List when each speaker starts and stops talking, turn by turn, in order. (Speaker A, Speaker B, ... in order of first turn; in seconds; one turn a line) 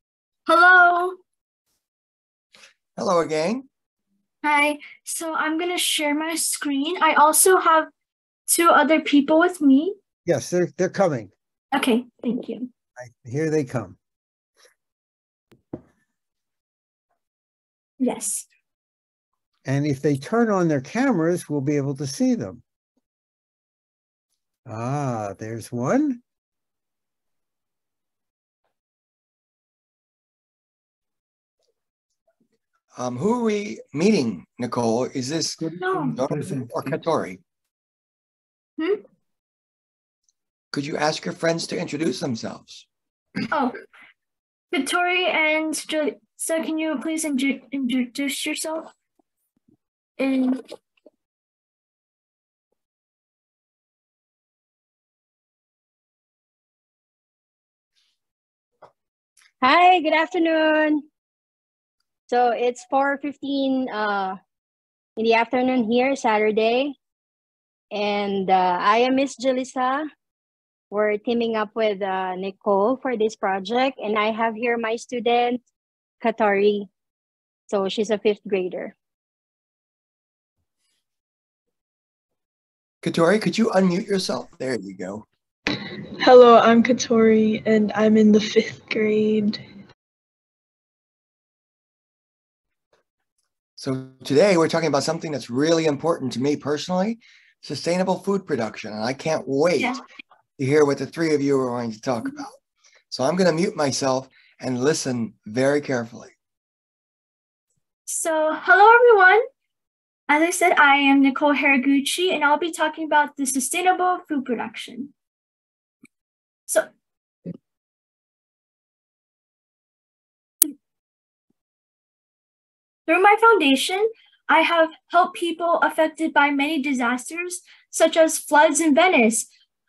Speaker A: 0.5-1.2
Speaker B: 3.0-3.7
Speaker A: 4.4-7.9
Speaker A: 8.5-10.0
Speaker C: 10.3-11.3
Speaker A: 11.7-12.7
Speaker C: 13.0-14.0
Speaker A: 18.0-18.5
Speaker C: 19.6-22.6
Speaker C: 24.7-26.2
Speaker B: 33.0-37.4
Speaker A: 35.8-36.2
Speaker A: 38.8-39.0
Speaker B: 40.7-42.9
Speaker A: 43.5-43.8
Speaker A: 44.7-48.9
Speaker A: 50.2-50.6
Speaker D: 59.6-61.0
Speaker D: 62.3-64.4
Speaker D: 65.2-67.0
Speaker D: 67.9-70.0
Speaker D: 70.9-75.6
Speaker D: 76.2-76.9
Speaker D: 77.7-78.9
Speaker B: 83.0-85.3
Speaker E: 86.2-89.6
Speaker B: 93.8-100.0
Speaker B: 100.6-102.5
Speaker B: 103.1-106.3
Speaker A: 108.1-109.4
Speaker A: 110.3-115.1
Speaker A: 123.1-129.5